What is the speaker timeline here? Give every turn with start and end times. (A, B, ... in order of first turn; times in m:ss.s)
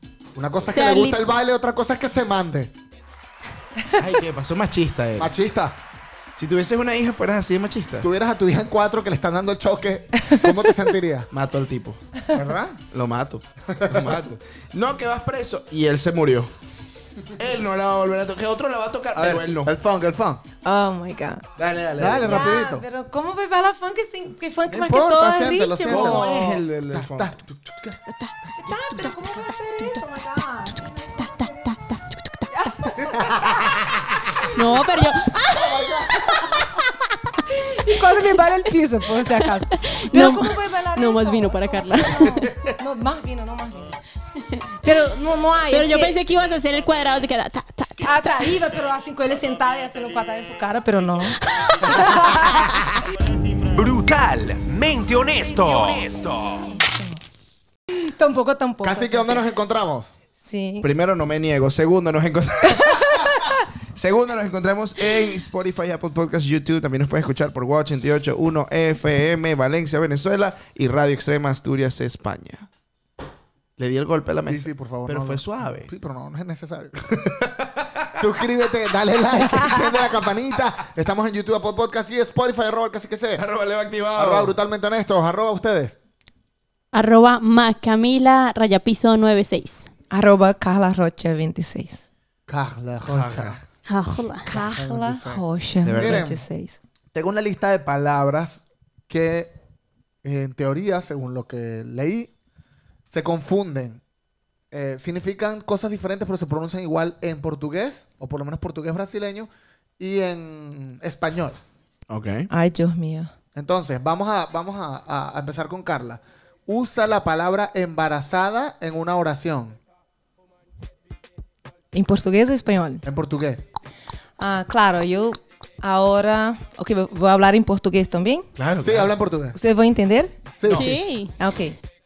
0:00.3-0:02.7 A
0:00.7-0:01.2 B
0:04.0-0:05.3 C
0:05.2-0:05.8 A
0:06.4-0:08.1 C
0:08.0-0:11.3 A
0:11.3-0:12.0 C
0:12.3-0:12.8 A
0:12.9-0:16.5 C
0:13.7-0:14.2 A
0:17.4-0:19.7 C
0:19.1-0:20.4 A
0:20.6-0:21.4 D
0:21.6-0:22.6 C
0:22.0-0:22.8 A
0:22.2-0:26.6 D
0:24.7-0:28.0 A
0:25.8-0:27.4 C
0:28.6-0:31.7 D
0:30.8-0:32.5 B
0:32.5-0:33.6 D
0:33.0-0:34.1 A
0:34.5-0:35.9 B
0:35.6-0:35.9 A
0:37.5-0:44.0 D
0:39.3-0:42.5 B
0:44.8-0:46.2 D
0:45.7-0:48.4 B
0:48.0-0:52.7 D
0:51.5-0:52.5 B
0:53.7-0:56.8 E
0:56.9-0:57.2 D
0:57.9-0:59.4 D
0:58.8-1:00.1 A
1:00.4-1:00.9 D
1:00.8-1:12.7 C
1:03.1-1:03.3 D
1:13.8-1:15.9 C
1:14.4-1:17.0 A
1:17.2-1:18.1 C
1:18.1-1:23.4 A
1:23.4-1:24.5 C
1:24.1-1:26.0 A
1:26.9-1:29.9 B
1:30.1-1:32.0 D
1:32.5-1:33.6 A
1:33.0-1:33.6 C
1:33.8-1:34.5 B
1:34.4-1:36.8 D
1:34.5-1:36.4 A
1:35.8-1:36.3 C
1:37.1-1:39.5 A
1:40.2-1:42.3 A
1:43.1-1:44.0 A
1:44.7-1:51.6 A
1:52.1-1:52.5 C
1:52.5-1:53.3 D
1:53.5-1:59.8 A
2:01.9-2:03.0 D
2:03.0-2:03.6 A
2:04.4-2:08.4 D
2:08.6-2:09.1 C
2:08.8-2:09.6 A
2:09.5-2:10.3 D
2:10.6-2:11.0 A
2:10.6-2:11.0 C
2:10.7-2:11.3 B
2:11.4-2:11.8 D